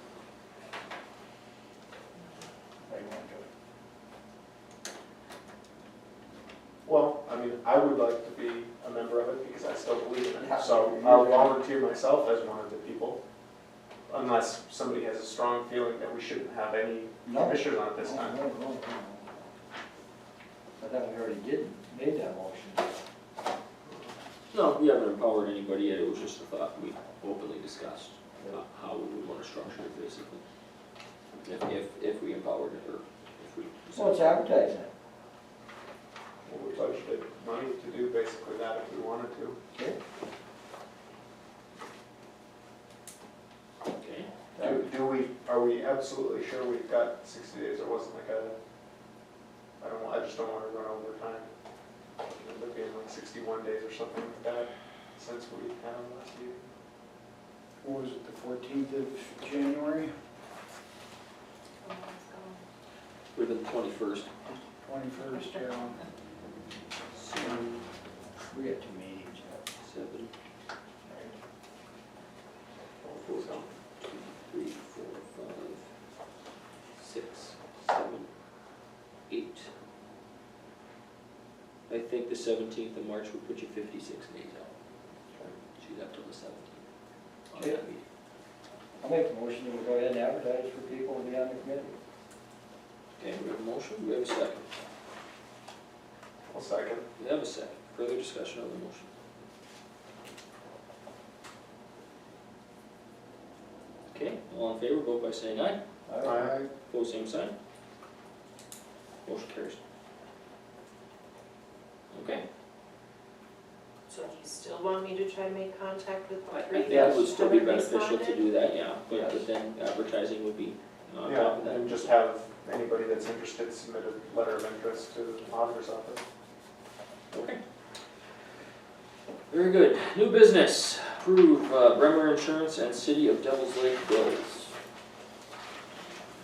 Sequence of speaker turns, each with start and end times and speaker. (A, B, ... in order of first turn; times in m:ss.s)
0:02.8-0:03.5 A
0:06.8-0:13.2 B
0:10.4-0:11.6 A
0:14.1-0:18.4 B
0:17.2-0:19.3 A
0:20.8-0:22.9 A
0:23.9-0:24.1 B
0:24.5-0:30.4 C
0:31.4-0:34.3 C
0:33.9-0:34.9 A
0:36.4-0:39.6 B
0:44.0-0:44.3 C
0:44.5-0:44.9 A
0:44.6-0:48.6 B
0:49.8-0:51.5 B
0:52.2-0:56.7 B
0:57.8-1:00.1 D
1:01.8-1:02.6 E
1:03.3-1:04.3 C
1:04.5-1:06.0 D
1:07.1-1:07.8 C
1:07.3-1:07.7 D
1:08.5-1:09.6 A
1:09.8-1:10.3 C
1:11.1-1:11.3 A
1:13.0-1:13.6 B
1:13.2-1:15.8 C
1:17.0-1:18.3 C
1:19.3-1:19.7 C
1:21.9-1:24.7 C
1:25.8-1:26.8 C
1:27.5-1:28.0 C
1:27.5-1:27.8 A
1:29.0-1:32.0 A
1:33.2-1:34.7 C
1:36.5-1:37.1 B
1:37.2-1:39.1 C
1:44.1-1:45.8 C
1:46.1-1:46.7 A
1:46.2-1:46.6 B
1:46.9-1:47.5 C
1:49.2-1:49.8 C
1:52.1-1:52.4 C
1:54.1-1:58.4 E
1:56.5-2:02.2 C
2:01.2-2:06.2 B
2:07.3-2:07.6 C
2:09.5-2:14.7 C